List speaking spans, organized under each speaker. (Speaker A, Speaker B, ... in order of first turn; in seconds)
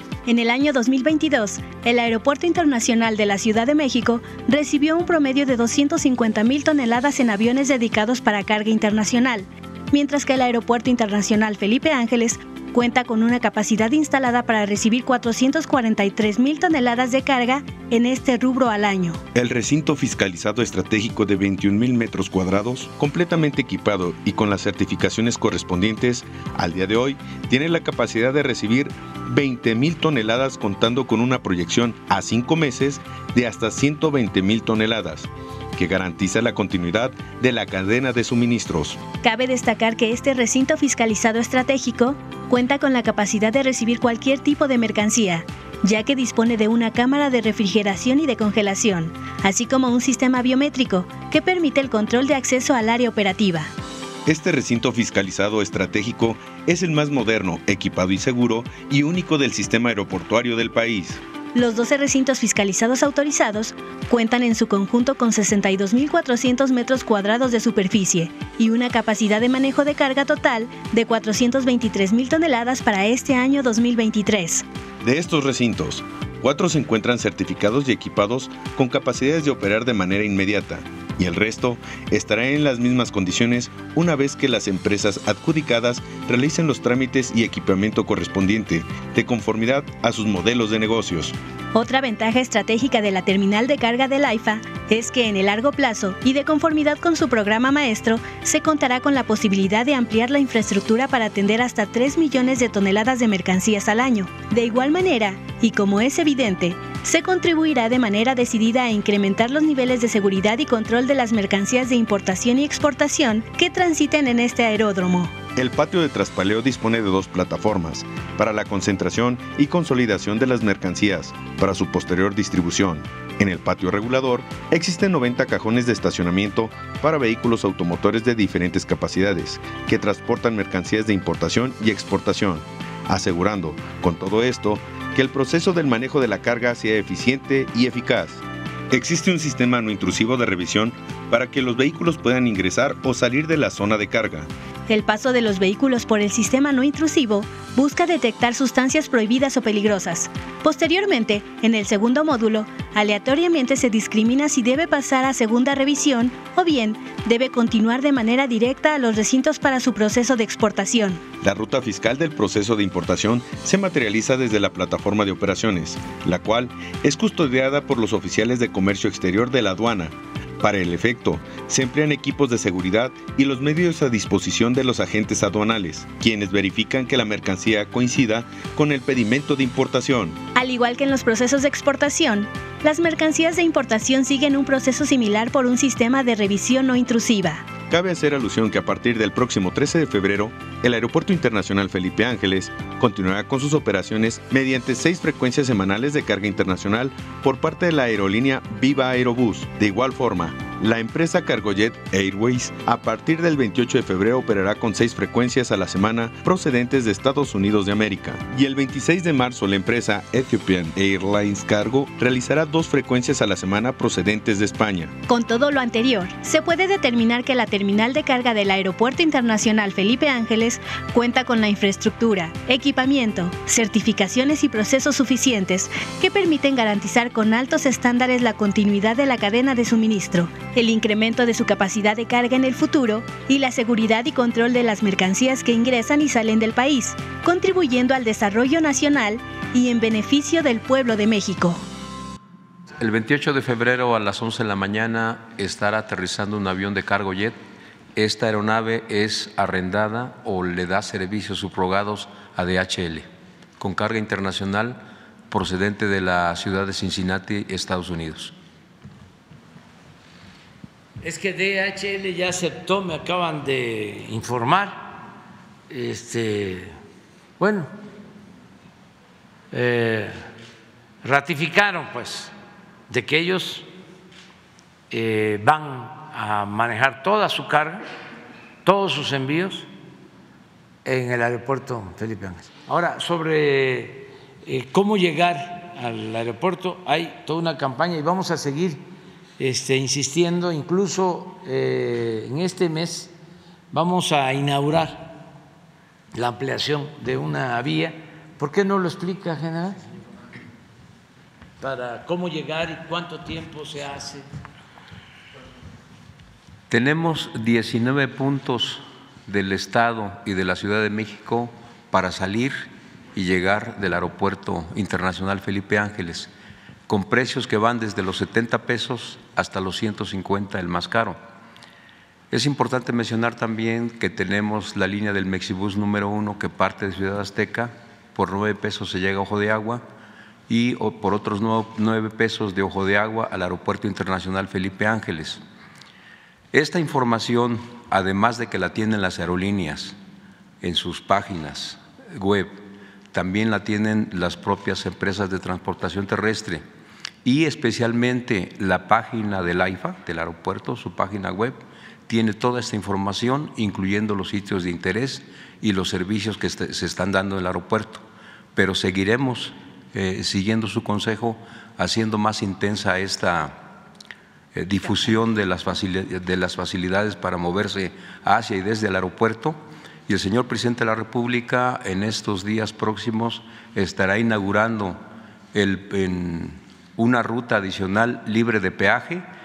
Speaker A: 0.2-19.2, 39.2-53.7, 61.5-74.6, 91.7-115.3, 144.9-161.2, 180.5-187.7, 215.3-241.8
Speaker B: 19.3-39.0, 54.2-61.2, 75.0-91.3, 115.5-144.5, 161.4-180.4, 187.9-215.1
Speaker C: 243.0-247.6, 248.2-253.2, 253.8-258.5, 306.9-316.5, 317.1-321.4, 322.5-330.0, 330.7-335.6, 336.7-340.1, 340.8-342.8, 343.3-346.8, 347.4-358.2, 358.7-363.8, 364.7-375.2, 375.7-379.4
Speaker D: 261.2-265.2, 265.9-266.9, 267.6-267.9, 269.7-270.3, 271.2-272.5, 273.1-273.9, 275.1-278.0, 278.8-279.9, 281.0-289.0, 289.6-293.3, 293.9-295.4, 296.3-300.0, 301.8-304.4